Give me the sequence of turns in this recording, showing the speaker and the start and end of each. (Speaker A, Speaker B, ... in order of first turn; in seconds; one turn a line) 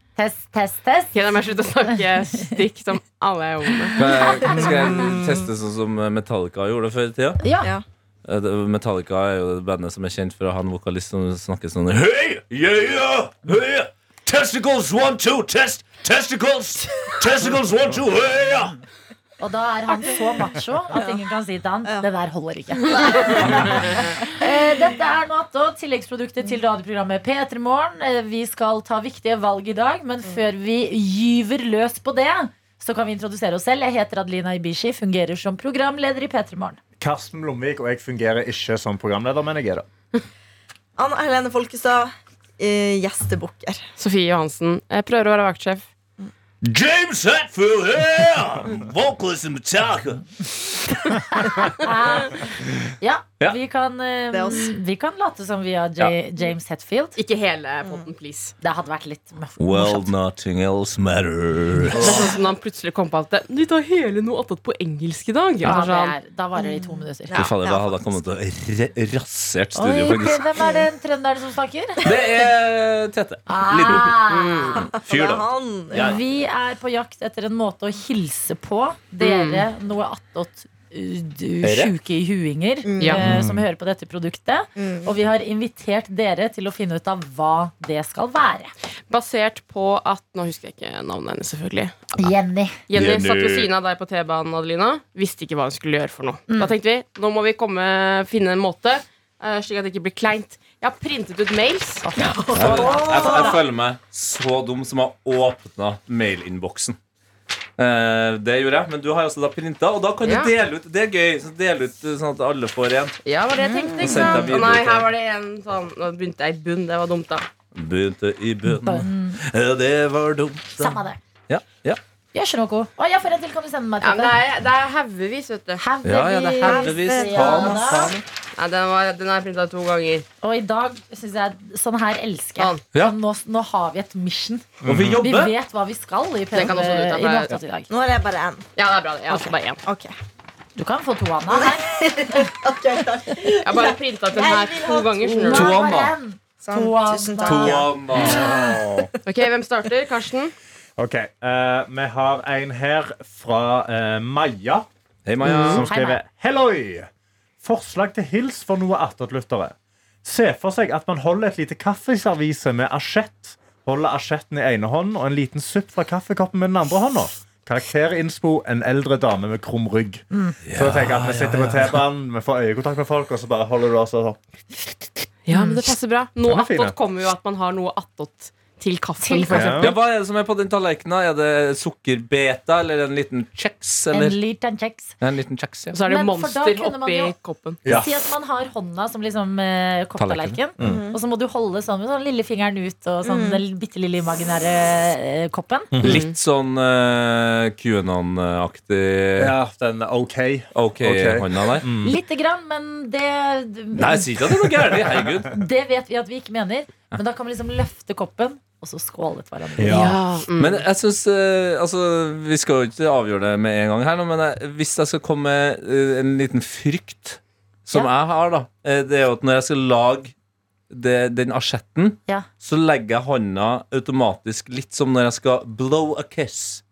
Speaker A: 0.1-1.2
Speaker B: 1.1-4.0
Speaker C: 4.0-7.4
Speaker D: 4.4-5.3
Speaker A: 7.4-7.7
Speaker C: 8.2-18.8
Speaker A: 19.4-36.8
Speaker D: 20.9-21.2
Speaker D: 23.1-24.1
Speaker C: 23.4-23.9
Speaker E: 37.0-39.9
Speaker D: 41.0-43.8
Speaker B: 44.0-45.8
Speaker C: 46.6-50.5
Speaker A: 51.1-57.2
Speaker D: 54.3-54.7
Speaker B: 57.1-58.5
Speaker A: 58.6-60.1
Speaker C: 59.6-62.3
Speaker B: 61.9-66.2
Speaker A: 65.6-67.4
Speaker D: 66.5-68.0
Speaker C: 67.3-70.5
Speaker A: 69.8-72.0
Speaker D: 70.6-70.8
Speaker C: 72.0-74.2
Speaker A: 73.5-74.9
Speaker B: 74.3-74.8
Speaker C: 74.7-76.2
Speaker D: 74.9-76.2
Speaker A: 75.9-88.7
Speaker B: 79.2-79.6
Speaker C: 81.6-81.9
Speaker D: 82.8-83.2
Speaker E: 83.1-83.6
Speaker D: 84.8-85.1
Speaker B: 89.1-92.2
Speaker A: 92.2-92.8
Speaker B: 92.9-102.1
Speaker C: 92.9-93.7
Speaker A: 96.5-96.8
Speaker A: 102.0-103.6
Speaker D: 102.2-103.6
Speaker C: 102.5-107.0
Speaker C: 107.8-113.2
Speaker B: 110.2-110.5
Speaker B: 113.2-117.5
Speaker D: 113.6-114.3
Speaker A: 114.0-114.5
Speaker C: 114.0-115.1
Speaker C: 117.7-122.0
Speaker A: 118.7-119.4
Speaker A: 120.8-121.2
Speaker A: 122.3-124.4
Speaker B: 124.0-125.8
Speaker A: 125.8-128.1
Speaker C: 126.0-128.2
Speaker D: 126.6-128.2
Speaker B: 128.6-130.2
Speaker A: 130.4-137.9
Speaker E: 134.8-135.2
Speaker C: 134.8-135.5
Speaker B: 136.5-137.5
Speaker D: 137.9-138.7
Speaker B: 138.8-139.8
Speaker D: 139.8-140.2
Speaker A: 140.8-142.5
Speaker D: 141.5-145.7
Speaker B: 143.6-145.7
Speaker A: 144.4-148.5
Speaker C: 145.5-146.1
Speaker D: 146.6-149.1
Speaker C: 147.4-148.4
Speaker E: 148.3-149.1
Speaker B: 149.2-150.5
Speaker E: 151.0-154.8
Speaker C: 155.2-155.9
Speaker B: 155.4-155.8
Speaker E: 155.6-157.1
Speaker A: 155.8-156.2
Speaker E: 157.6-174.4
Speaker C: 170.7-172.0
Speaker B: 175.5-180.0
Speaker A: 175.5-175.8
Speaker E: 176.4-176.9
Speaker A: 179.2-179.9
Speaker E: 179.5-179.9
Speaker C: 179.8-184.4
Speaker A: 184.1-185.2
Speaker C: 185.2-186.0
Speaker B: 185.9-187.8
Speaker A: 186.0-195.9
Speaker C: 190.2-190.6
Speaker E: 190.8-191.0
Speaker D: 190.8-191.2
Speaker D: 193.2-193.6
Speaker E: 195.9-196.2
Speaker C: 196.0-199.5
Speaker B: 196.0-196.3
Speaker E: 199.3-202.2
Speaker C: 200.7-201.9
Speaker A: 202.0-204.3
Speaker C: 203.9-205.5
Speaker A: 205.5-210.2
Speaker E: 209.8-210.2
Speaker B: 209.8-210.8
Speaker C: 210.6-220.3
Speaker C: 220.9-226.8